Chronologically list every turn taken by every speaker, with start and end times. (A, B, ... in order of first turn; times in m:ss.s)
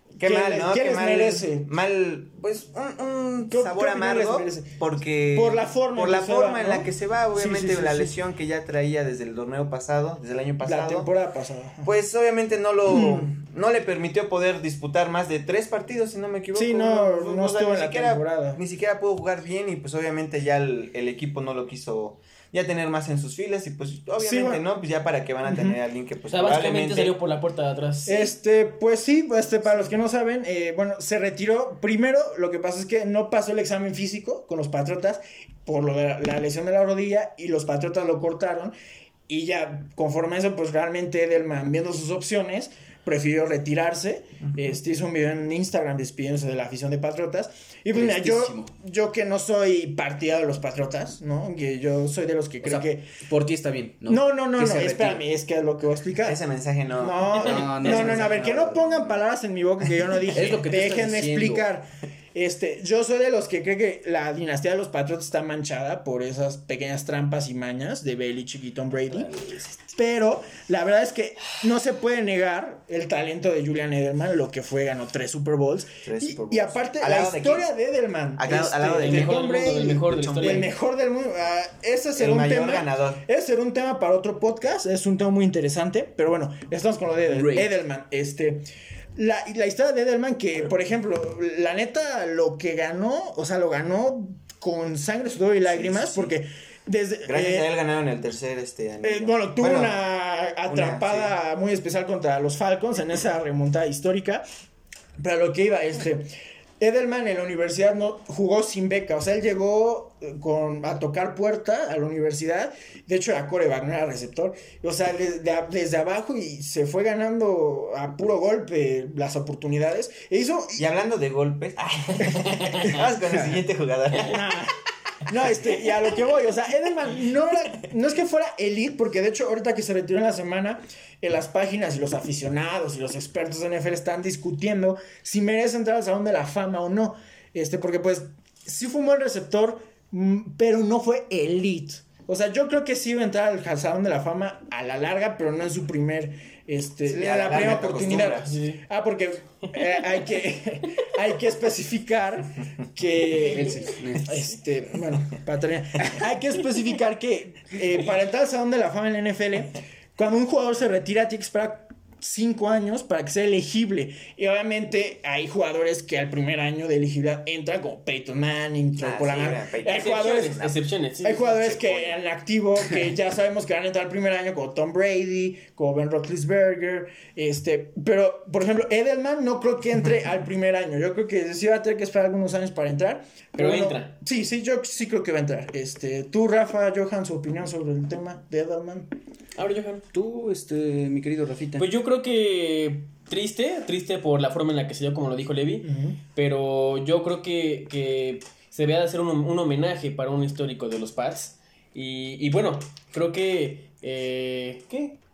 0:00.2-0:11.1 A
0:00.2-0:01.7 B
0:03.5-0:04.7 B
0:05.3-0:08.2 B
0:10.6-0:11.9 B
0:11.8-0:27.2 A
0:12.9-0:13.3 B
0:16.5-0:18.6 B
0:24.2-0:24.6 B
0:25.5-0:25.8 B
0:26.3-0:28.3 C
0:28.1-0:38.7 B
0:39.3-0:53.1 B
0:47.9-0:48.7 D
0:52.6-0:55.2 D
0:54.1-0:56.4 B
0:56.2-0:57.4 A
0:57.0-1:09.3 B
0:57.3-0:59.2 D
0:57.6-0:58.2 C
1:00.3-1:01.7 D
1:09.1-1:09.7 D
1:09.9-1:28.6 B
1:16.0-1:17.7 A
1:18.4-1:20.7 A
1:19.0-1:20.7 C
1:22.2-1:23.2 A
1:27.3-1:27.7 D
1:29.2-1:37.7 B
1:35.7-1:36.3 D
1:37.3-1:40.0 A
1:39.0-1:44.4 B
1:40.7-1:41.3 A
1:45.2-1:46.3 B
1:46.8-2:00.8 B
2:00.8-2:04.6 A
2:02.5-2:02.9 C
2:03.3-2:03.6 D
2:04.2-2:04.7 B
2:05.3-2:50.6 B
2:27.1-2:28.5 A
2:28.4-2:28.8 C
2:33.5-2:34.5 D
2:49.0-2:50.8 A
2:49.9-2:51.4 C
2:51.2-3:09.1 B
2:51.4-2:52.2 A
3:03.6-3:04.1 C
3:09.6-3:10.0 C
3:10.1-3:11.9 D
3:11.8-3:25.2 C
3:15.8-3:16.2 B